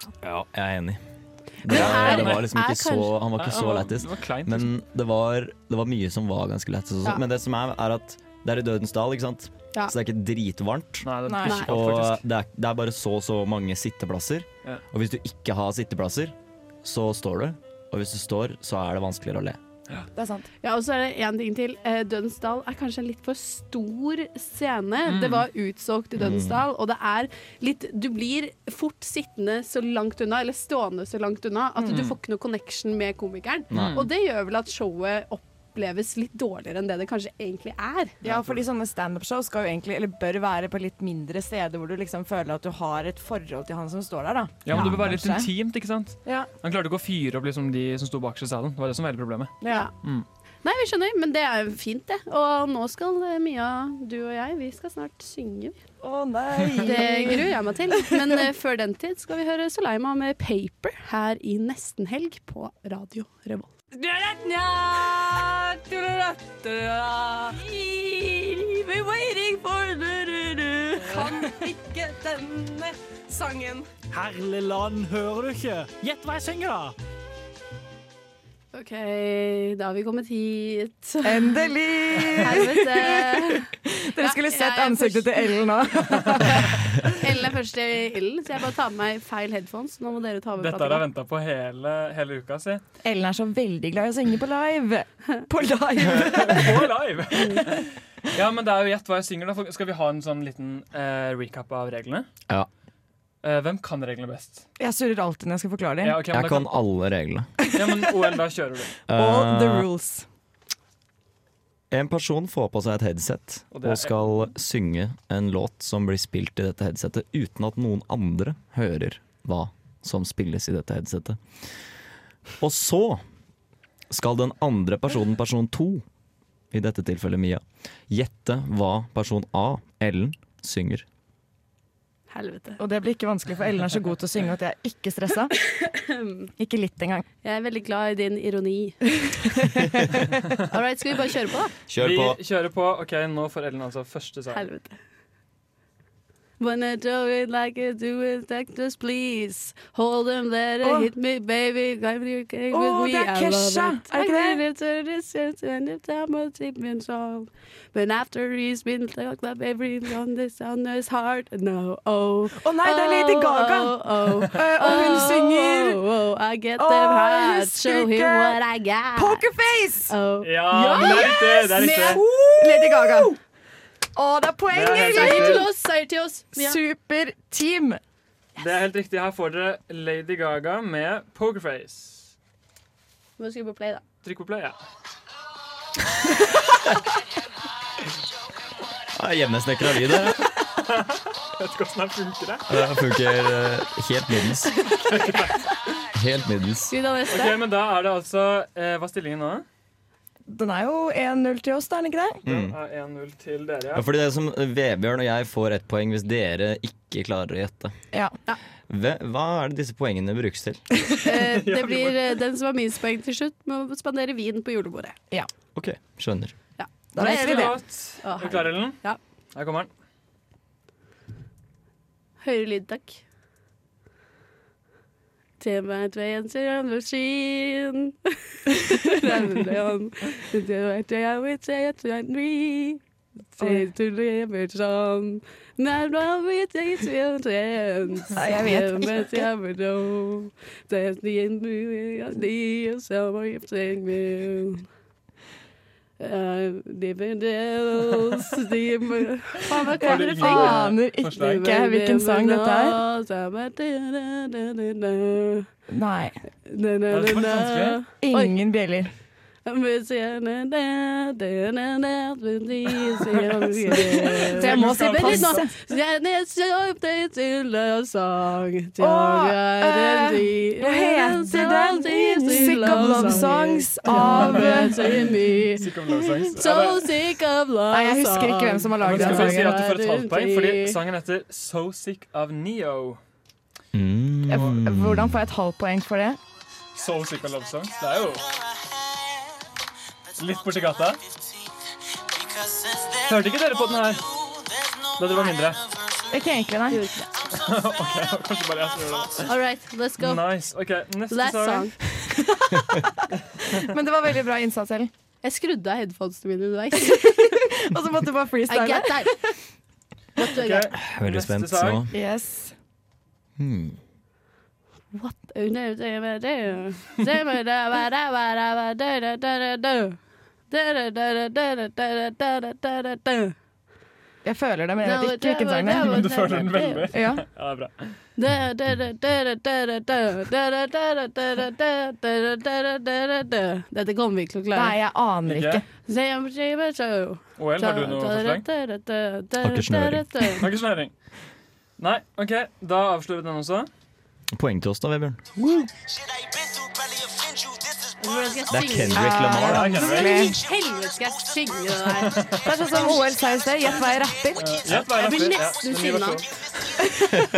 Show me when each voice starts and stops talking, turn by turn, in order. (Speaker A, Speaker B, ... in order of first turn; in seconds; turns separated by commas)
Speaker A: 0.2-1.0, Speaker A: 1.6-19.6, Speaker B: 1.6-3.1, Speaker C: 1.7-2.5, Speaker C: 3.4-4.7, Speaker C: 11.0-12.2, Speaker D: 11.3-11.6, Speaker D: 20.2-20.5, Speaker B: 20.6-38.2, Speaker C: 25.1-25.5, Speaker A: 26.2-26.6, Speaker C: 31.9-32.2, Speaker A: 33.7-34.1, Speaker C: 33.7-34.1, Speaker D: 38.2-45.5, Speaker C: 38.2-38.6, Speaker C: 44.7-50.3, Speaker A: 44.7-45.1, Speaker B: 49.7-49.9, Speaker B: 50.6-55.8, Speaker D: 56.0-58.4, Speaker B: 56.8-63.7, Speaker E: 63.9-73.9, Speaker F: 74.1-76.9, Speaker B: 78.7-81.7, Speaker D: 81.2-87.1, Speaker B: 82.4-85.5, Speaker B: 86.4-91.0, Speaker C: 90.6-92.8, Speaker D: 93.0-96.8, Speaker C: 96.2-102.3, Speaker C: 103.4-104.7, Speaker D: 104.8-106.2, Speaker C: 106.0-106.7, Speaker A: 106.3-107.5, Speaker D: 107.7-108.1, Speaker C: 107.7-109.0, Speaker A: 109.1-109.9, Speaker D: 109.1-110.2, Speaker A: 111.9-121.4, Speaker C: 113.7-114.4, Speaker A: 122.6-123.2, Speaker A: 124.1-126.0, Speaker A: 126.7-131.1, Speaker B: 132.3-132.8, Speaker D: 132.8-135.5, Speaker B: 135.7-136.5, Speaker D: 136.6-137.3, Speaker B: 137.4-139.2, Speaker D: 139.4-140.3, Speaker B: 140.7-141.7, Speaker A: 141.9-142.4, Speaker C: 142.0-144.7, Speaker B: 144.5-145.0, Speaker B: 146.6-169.5, Speaker D: 150.8-151.1, Speaker D: 152.7-154.6, Speaker D: 162.5-166.0, Speaker D: 166.8-168.6, Speaker D: 169.2-170.1, Speaker B: 170.1-173.3, Speaker C: 170.4-172.2, Speaker D: 170.8-173.4, Speaker D: 174.2-175.7, Speaker C: 174.7-175.7, Speaker B: 175.1-176.8, Speaker D: 176.5-178.0, Speaker C: 178.6-182.3, Speaker B: 183.4-184.0, Speaker C: 184.2-184.8, Speaker A: 189.2-190.5, Speaker C: 190.8-192.7, Speaker A: 192.7-194.8, Speaker C: 195.0-195.6, Speaker A: 196.1-196.9, Speaker B: 196.9-197.6, Speaker C: 197.3-199.7, Speaker D: 200.5-202.4, Speaker A: 202.4-202.8, Speaker C: 202.5-204.1, Speaker A: 203.9-207.9, Speaker A: 208.9-210.8, Speaker B: 211.2-215.2, Speaker C: 211.4-212.4, Speaker A: 215.8-216.6, Speaker B: 216.8-219.2, Speaker D: 217.1-217.8, Speaker C: 217.2-219.0, Speaker C: 219.5-219.9, Speaker B: 222.4-223.2, Speaker B: 225.6-233.0, Speaker B: 233.6-244.9, Speaker D: 238.3-239.4, Speaker B: 246.2-255.7, Speaker C: 249.7-251.7, Speaker D: 250.0-253.0, Speaker D: 255.9-256.4, Speaker B: 256.7-258.6, Speaker C: 257.1-258.0, Speaker D: 258.1-259.1, Speaker B: 259.7-281.0, Speaker D: 263.9-265.7, Speaker C: 264.5-265.6, Speaker D: 269.0-275.3, Speaker C: 274.1-277.1, Speaker D: 277.9-279.8, Speaker C: 279.0-283.2, Speaker A: 283.9-285.4, Speaker D: 284.5-286.4, Speaker C: 286.9-288.5, Speaker C: 290.4-291.2, Speaker C: 293.1-294.3, Speaker C: 295.2-295.9, Speaker D: 296.3-297.1, Speaker B: 296.9-297.3, Speaker C: 297.5-299.5, Speaker B: 299.5-300.5, Speaker C: 300.2-301.9, Speaker B: 301.3-302.0, Speaker D: 302.4-303.1, Speaker D: 303.8-305.1, Speaker B: 305.4-307.6, Speaker D: 307.0-309.5, Speaker B: 308.7-309.4, Speaker B: 310.4-310.9, Speaker C: 310.6-312.0, Speaker A: 311.0-312.1, Speaker D: 312.1-312.7, Speaker A: 313.6-314.0, Speaker B: 315.1-320.2, Speaker B: 320.7-323.6, Speaker D: 324.4-326.3, Speaker B: 325.0-327.1, Speaker C: 326.0-328.2, Speaker D: 327.1-327.5, Speaker B: 328.4-334.9, Speaker D: 334.7-335.8, Speaker C: 335.5-335.8, Speaker B: 336.1-340.7, Speaker C: 337.6-338.6, Speaker A: 339.6-340.5, Speaker C: 340.6-341.1, Speaker C: 342.0-343.9, Speaker A: 344.5-345.4, Speaker D: 345.6-345.9, Speaker B: 348.2-353.2, Speaker A: 348.7-350.1, Speaker D: 349.1-350.6, Speaker C: 349.6-350.5, Speaker C: 352.2-352.7, Speaker D: 352.6-354.8, Speaker C: 354.6-356.5, Speaker B: 354.9-356.4